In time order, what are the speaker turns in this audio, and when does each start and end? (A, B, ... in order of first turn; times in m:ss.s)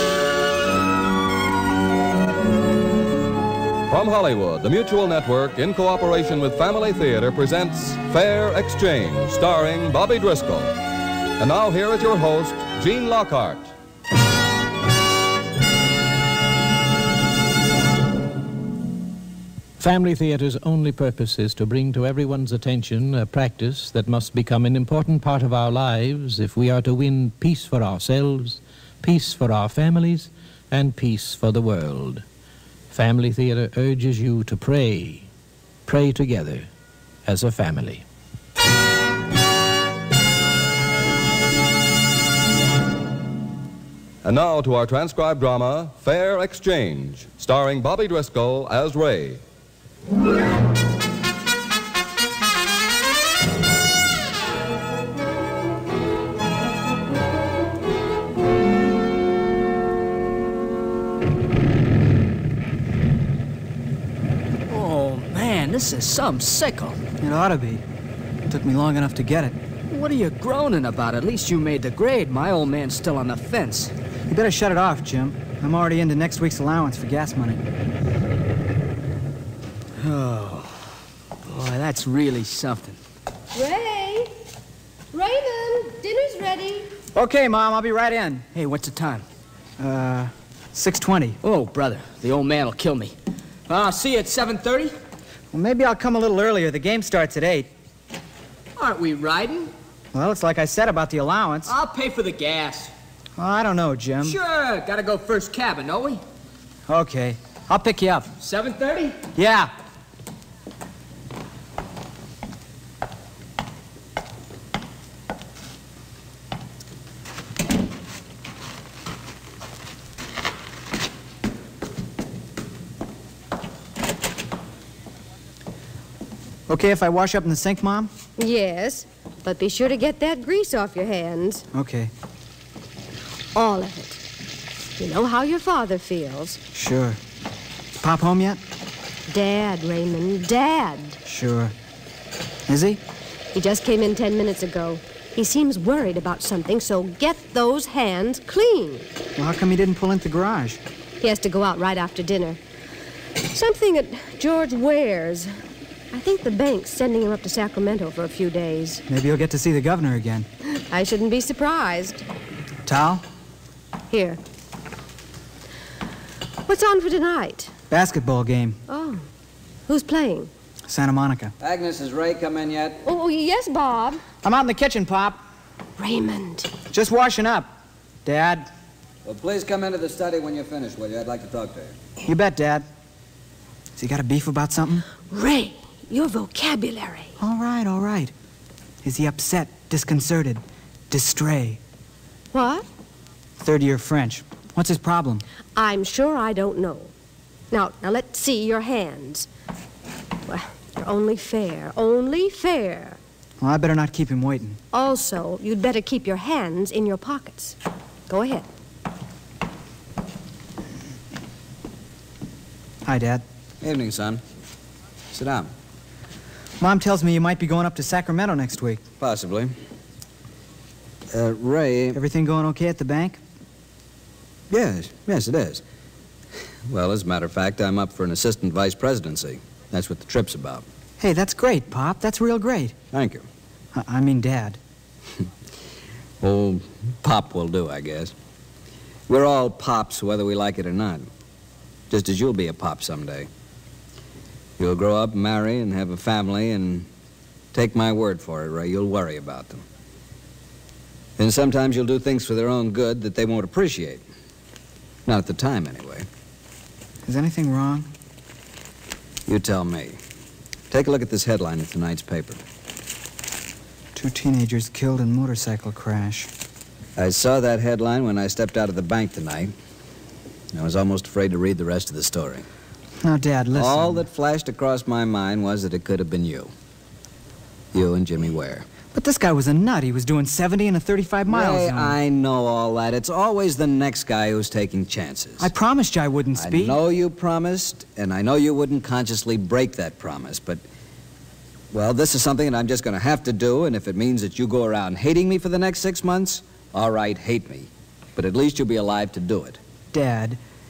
0:03.9-0:10.7 A
0:11.4-0:13.7 A
0:19.8-0:32.2 B
0:32.9-0:35.3 B
0:35.9-0:36.7 B
0:37.2-0:38.0 B
0:44.2-0:49.4 A
1:04.7-1:07.0 C
1:07.2-1:07.8 D
1:08.5-1:09.6 D
1:09.9-1:13.9 C
1:14.3-1:17.6 D
1:20.0-1:20.9 C
1:21.4-1:23.0 C
1:23.5-1:24.3 E
1:25.1-1:26.9 E
1:27.1-1:28.4 D
1:28.5-1:29.3 C
1:29.8-1:31.4 D
1:31.4-1:33.2 C
1:33.7-1:35.0 C
1:35.5-1:37.7 D
1:38.8-1:39.7 C
1:40.1-1:41.7 D
1:41.7-1:42.9 C
1:43.4-1:44.4 D
1:44.2-1:46.2 C
1:46.9-1:48.3 D
1:48.4-1:49.2 C
1:49.4-1:49.7 D
2:06.7-2:08.1 D
2:08.4-2:11.6 E
2:11.7-2:12.1 D
2:13.5-2:14.2 E
2:15.0-2:16.6 E
2:16.7-2:17.2 D
2:18.0-2:18.6 D
2:19.3-2:21.2 E
2:21.2-2:21.7 D
2:22.7-2:23.0 D
2:23.5-2:29.1 E
2:29.4-2:30.8 D
2:31.2-2:32.6 E
2:33.5-2:35.5 E
2:36.1-2:39.0 E
2:39.1-2:40.5 D
2:40.7-2:42.2 E
2:42.8-2:43.2 D
2:44.1-2:44.4 E
2:46.7-2:47.7 E
2:47.9-2:48.8 D
2:48.9-2:49.2 E
2:49.9-2:50.5 E
2:50.9-2:51.5 D
2:51.6-2:53.0 F
2:53.0-2:54.2 E
2:54.4-2:55.4 D
2:56.0-2:56.7 E
2:56.9-2:57.7 D
2:58.2-2:58.7 D
2:59.2-3:01.9 F
3:02.2-3:02.9 D
3:04.0-3:05.0 D
3:05.2-3:07.3 E
3:07.4-3:08.3 D
3:09.0-3:11.8 D
3:12.5-3:12.8 E
3:13.6-3:15.4 D
3:15.8-3:17.1 E
3:17.7-3:19.5 E
3:20.5-3:23.2 E
3:23.6-3:24.8 D
3:24.9-3:27.8 E
3:28.3-3:28.7 E
3:33.0-3:33.4 D
3:33.8-3:34.4 F
3:35.3-3:35.7 F
3:36.8-3:39.0 D
3:39.2-3:39.8 F
3:41.3-3:42.2 F
3:42.1-3:43.4 D
3:44.7-3:45.8 F
3:46.8-3:50.8 F
3:51.2-3:52.9 D
3:53.1-3:53.4 F
3:53.9-3:54.8 D
3:56.4-3:58.3 F
3:59.3-4:01.3 F
4:02.1-4:03.5 F
4:04.8-4:07.1 F
4:07.7-4:09.8 F
4:11.4-4:14.2 F
4:15.2-4:16.3 F
4:17.2-4:18.1 D
4:19.5-4:20.2 F
4:20.9-4:22.6 F
4:24.2-4:26.5 D
4:27.2-4:29.7 F
4:30.7-4:32.7 F
4:33.2-4:34.2 D
4:33.7-4:36.7 F
4:37.9-4:38.9 F
4:39.1-4:42.2 D
4:41.5-4:45.7 F
4:45.6-4:47.0 D
4:46.6-4:50.8 F
4:51.9-4:59.8 F
5:00.1-5:00.6 D